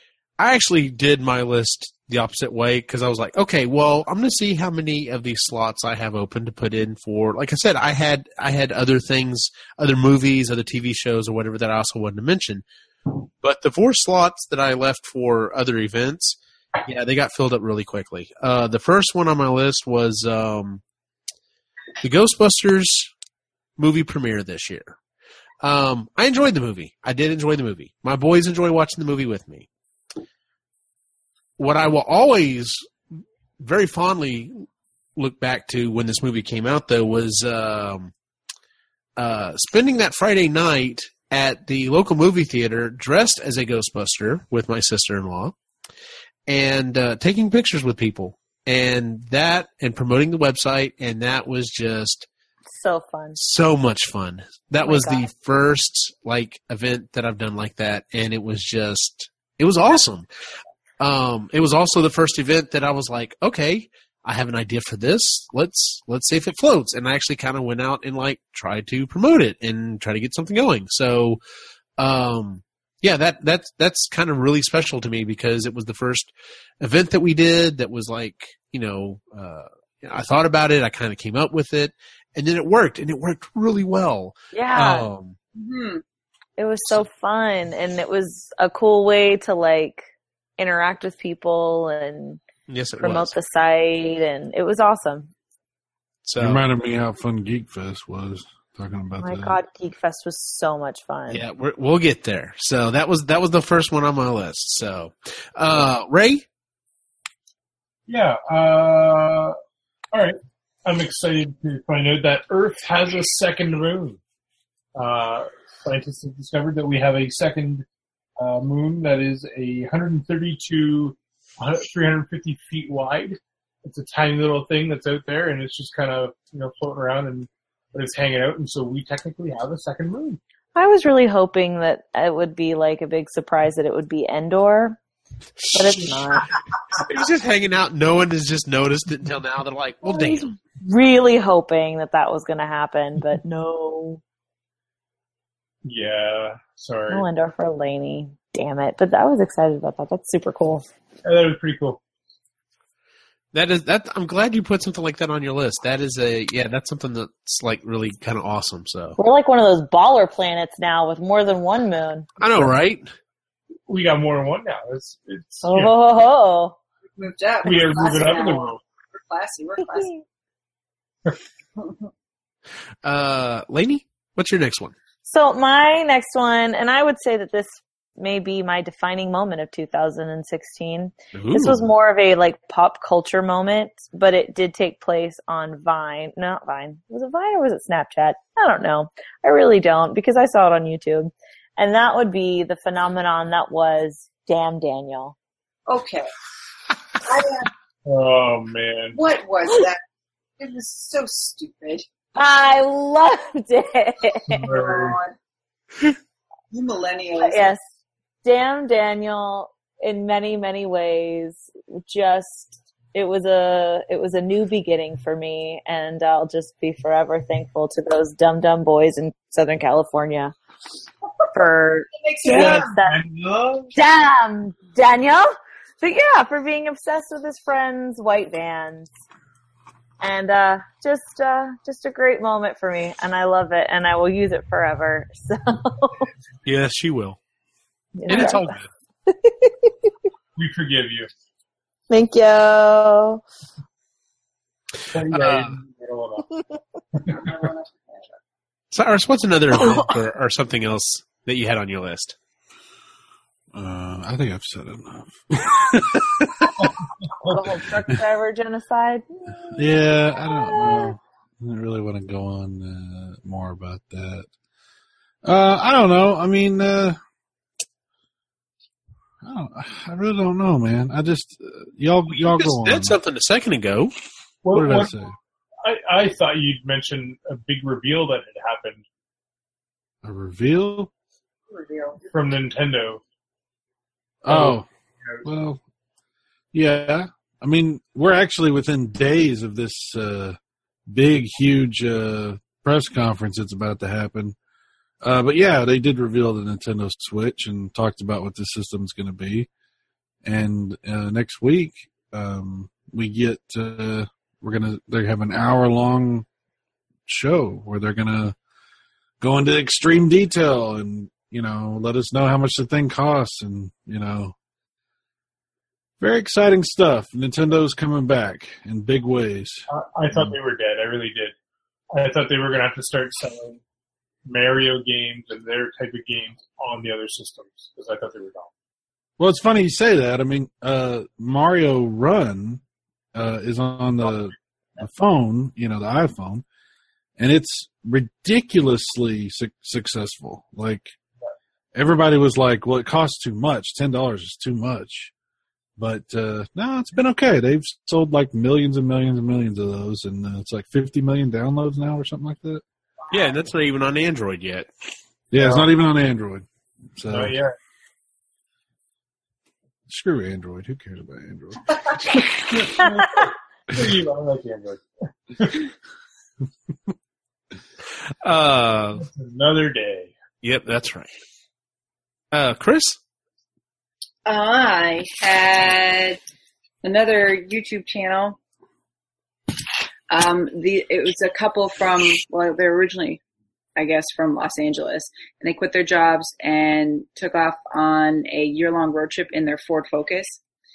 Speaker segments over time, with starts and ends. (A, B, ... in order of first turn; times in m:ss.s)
0:00.4-0:20.8 A
0:22.0-0:23.1 A
0:23.8-0:25.0 A
0:25.6-0:29.7 A
0:31.6-0:32.9 A
0:33.6-0:34.7 A
0:35.2-0:38.1 A
0:39.2-0:45.6 A
0:46.5-0:52.3 A
0:52.7-0:53.4 B
0:53.4-1:00.3 A
0:54.8-0:55.3 B
1:01.0-1:11.4 A
1:12.0-1:25.4 A
1:24.5-1:25.1 B
1:25.6-1:26.0 C
1:26.6-1:32.4 B
1:32.7-1:33.4 A
1:33.0-1:35.3 B
1:36.2-1:36.6 A
1:36.4-1:39.6 D
1:39.2-1:41.4 B
1:41.3-1:46.4 A
1:48.1-1:49.6 E
1:50.1-1:54.2 E
1:55.0-1:57.8 E
1:58.4-2:10.4 E
2:10.8-2:15.0 B
2:15.6-2:16.2 A
2:15.7-2:16.5 B
2:16.9-2:20.5 A
2:20.0-2:24.2 B
2:25.8-2:27.2 E
2:27.1-2:30.9 B
2:31.2-2:32.0 E
2:33.5-2:39.2 A
2:39.2-2:42.3 B
2:42.4-2:43.1 A
2:43.9-2:45.9 E
2:45.6-2:46.8 B
2:47.2-2:50.2 C
2:47.6-2:48.8 E
2:53.0-2:55.0 A
2:55.3-3:15.4 B
3:01.3-3:01.9 A
3:15.9-3:16.3 C
3:17.2-3:17.7 C
3:18.1-3:19.2 E
3:19.1-3:20.0 C
3:20.6-3:22.1 C
3:22.4-3:24.7 B
3:24.5-3:25.2 E
3:24.7-3:25.4 C
3:26.7-3:27.7 C
3:27.4-3:27.8 B
3:28.4-3:40.5 B
3:41.5-3:43.2 B
3:42.2-3:42.9 C
3:42.4-3:43.9 E
3:44.0-3:49.1 B
3:50.2-3:56.3 B
3:56.6-3:57.4 A
3:58.2-3:58.7 B
3:58.3-3:58.9 A
3:59.3-4:00.1 B
4:00.6-4:01.3 E
4:02.1-4:03.4 B
4:05.1-4:06.5 E
4:05.3-4:05.7 A
4:07.2-4:07.6 E
4:07.3-4:08.3 C
4:08.9-4:12.4 A
4:13.7-4:16.9 D
4:16.8-4:17.7 E
4:17.4-4:21.1 B
4:19.7-4:24.5 D
4:25.4-4:27.2 D
4:29.4-4:33.2 D
4:32.4-4:34.1 A
4:34.6-4:35.2 E
4:34.7-4:35.3 D
4:35.8-4:39.0 E
4:40.2-4:41.1 D
4:41.7-4:42.2 C
4:42.3-4:43.2 E
4:44.4-4:44.9 D
4:44.5-4:45.4 E
4:45.4-4:45.8 D
4:46.7-4:54.6 D
4:55.2-4:59.7 D
5:00.4-5:06.5 D
5:07.3-5:08.6 D
5:09.4-5:14.6 D
5:16.2-5:20.6 D
5:19.9-5:21.5 E
5:22.1-5:23.8 E
5:24.5-5:28.7 E
5:29.4-5:32.8 D
5:33.3-5:36.6 D
5:37.4-5:41.2 D
5:42.0-5:45.3 D
5:46.0-5:52.8 D
5:53.3-5:54.9 A
5:55.5-5:57.6 D
5:55.6-5:55.9 E
5:57.3-5:57.8 E
6:00.1-6:02.9 D
6:02.9-6:05.0 E
6:05.6-6:05.9 E
6:08.4-6:09.3 A
6:09.2-6:10.3 E
6:10.6-6:11.3 A
6:12.5-6:13.2 A
6:14.5-6:16.4 C
6:17.0-6:18.6 C
6:20.3-6:23.4 C
6:24.0-6:30.6 C